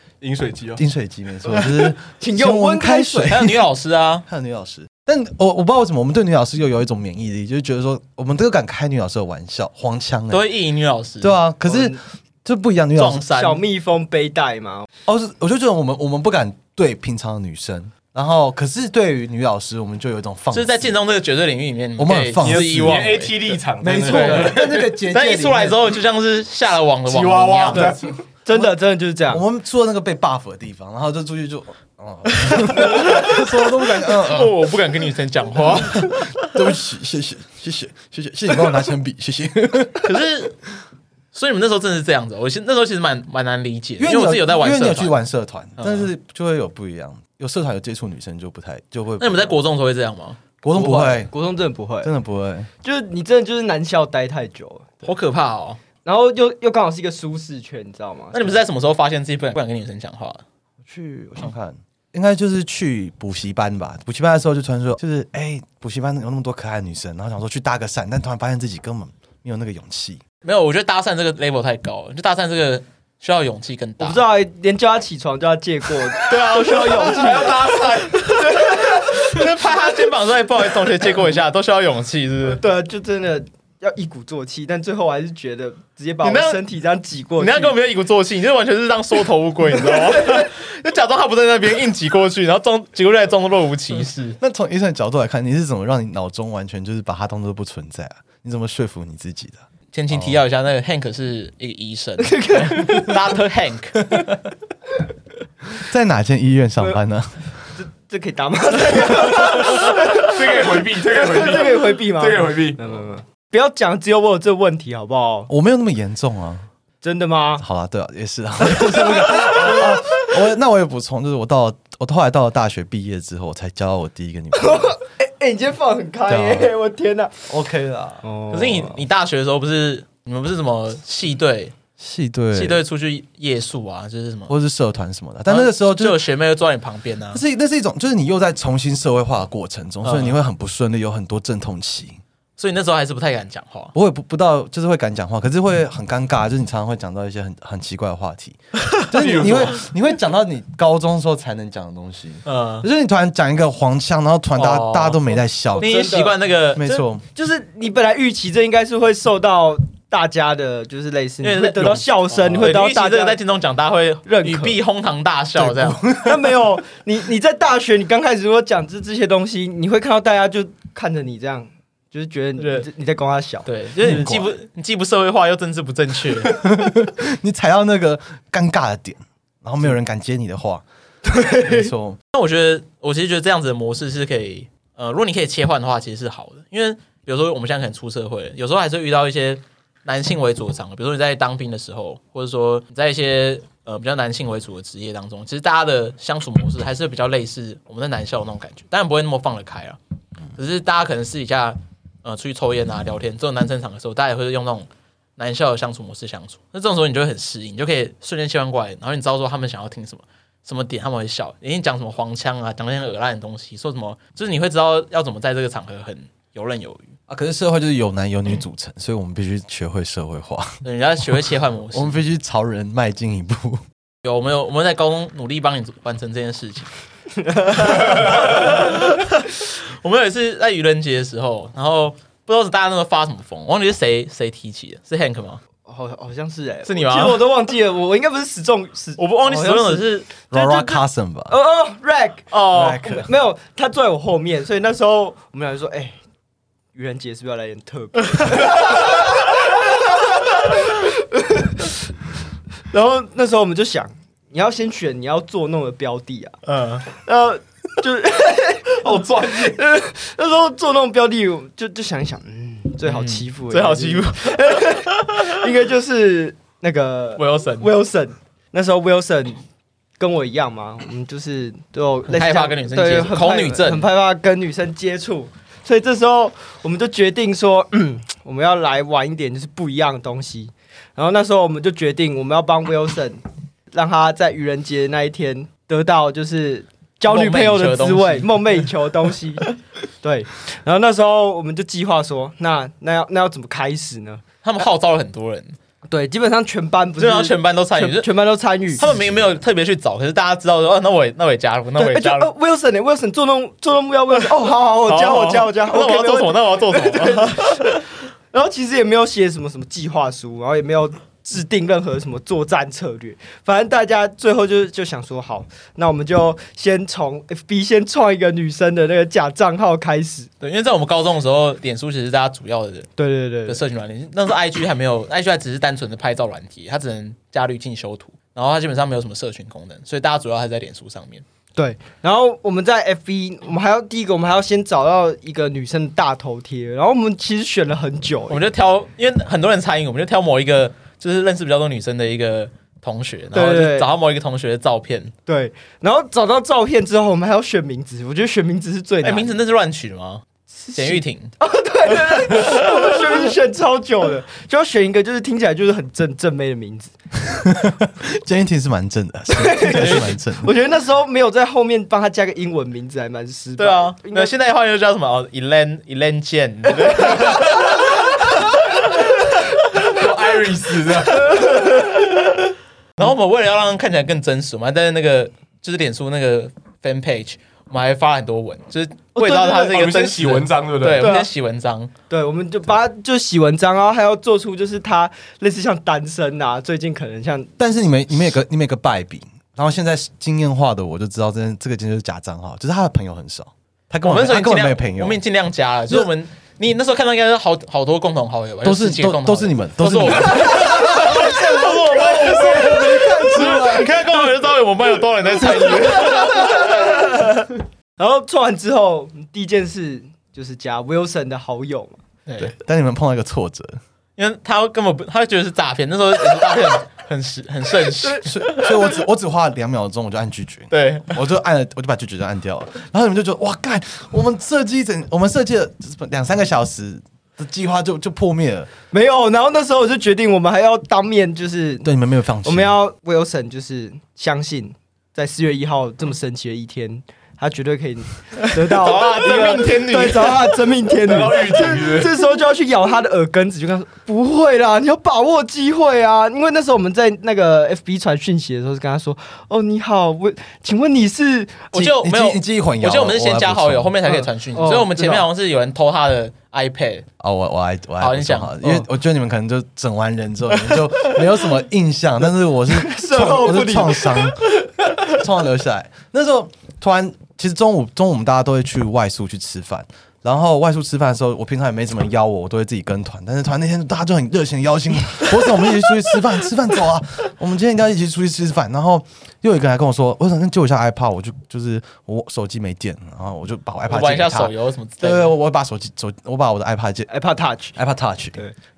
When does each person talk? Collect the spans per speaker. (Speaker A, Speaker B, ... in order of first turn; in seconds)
Speaker A: 0.2-0.8, 22.4-24.9, 27.1-28.2, 76.9-78.3, 109.0-112.8, 149.1-149.8, 258.9-259.8, 370.0-371.9, 379.5-381.3, 441.1-442.3
Speaker B: 0.7-3.6, 4.3-10.5, 11.2-13.3, 15.1-20.9, 22.0-23.2, 23.8-25.9, 29.3-34.5, 35.7-40.1, 44.0-49.6, 50.6-51.3, 52.0-52.7, 60.8-70.2, 94.4-100.4, 105.8-107.5, 115.5-116.7, 117.6-125.0, 126.2-126.7, 127.5-128.2, 132.0-132.8, 134.5-136.2, 137.3-142.2, 143.9-156.0, 156.7-157.2, 165.6-166.6, 174.0-174.5, 176.4-182.2, 217.3-220.8, 221.9-223.8, 240.5-241.6, 242.7-243.3, 299.0-299.4, 357.5-360.7, 387.8-395.4, 398.8-404.3, 412.6-414.0, 418.4-428.9, 432.0-432.9, 451.9-454.1, 457.4-487.3, 487.9-488.6
Speaker C: 2.1-3.5, 11.7-12.0, 13.2-14.9, 28.4-29.4, 50.7-52.1, 52.8-54.9, 56.0-58.6, 74.0-77.8, 78.4-79.5, 82.5-87.7, 89.8-90.5, 102.2-103.3, 107.8-115.5, 117.0-117.6, 118.7-120.0, 124.5-127.5, 128.2-129.0, 155.8-156.4, 157.3-163.4, 164.2-164.8, 166.1-173.7, 181.2-181.9, 227.6-228.0, 235.8-240.9, 241.5-246.2, 246.9-251.9, 252.9-269.6, 270.2-294.4, 296.1-299.0, 302.0-320.5, 323.2-323.8, 331.8-338.6, 343.5-344.1, 345.4-349.5, 350.8-357.1, 359.5-364.5, 379.4-379.9, 381.2-381.5, 382.3-387.7, 401.4-402.9, 405.9-412.2, 429.1-432.1, 432.6-451.9, 454.2-455.5, 462.9-464.5, 487.3-487.9
Speaker D: 3.2-4.2, 10.3-11.4, 12.9-13.6, 20.5-28.0, 32.4-36.6, 40.0-40.6, 41.3-45.2, 45.8-46.1, 49.2-50.4, 55.0-55.8, 58.3-60.4, 70.4-74.2, 76.2-82.6, 86.2-86.6, 87.4-94.4, 99.9-104.3, 128.5-131.7, 132.5-134.5, 135.5-137.4, 140.0-140.4, 142.6-143.9, 152.4-152.9, 154.5-157.0, 161.4-166.0, 172.6-172.9, 173.7-176.6, 182.3-200.0, 200.6-217.1, 220.8-222.2, 224.2-226.9, 227.7-235.6, 236.8-237.4, 239.2-240.4, 242.5-243.2, 256.6-257.1, 263.0-265.5, 267.4-267.9, 272.3-274.1, 287.2-288.9, 294.6-295.8, 297.2-298.3, 298.9-302.5, 305.1-308.0, 320.6-323.1, 323.6-331.4, 338.5-345.3, 349.2-351.5, 352.5-352.8, 359.9-360.3, 363.8-370.1, 371.9-372.3, 373.2-382.1, 394.2-407.4, 412.5-412.7, 414.4-419.1, 420.9-421.4, 438.6-440.8, 451.9-457.2, 458.2-458.9, 484.1-485.5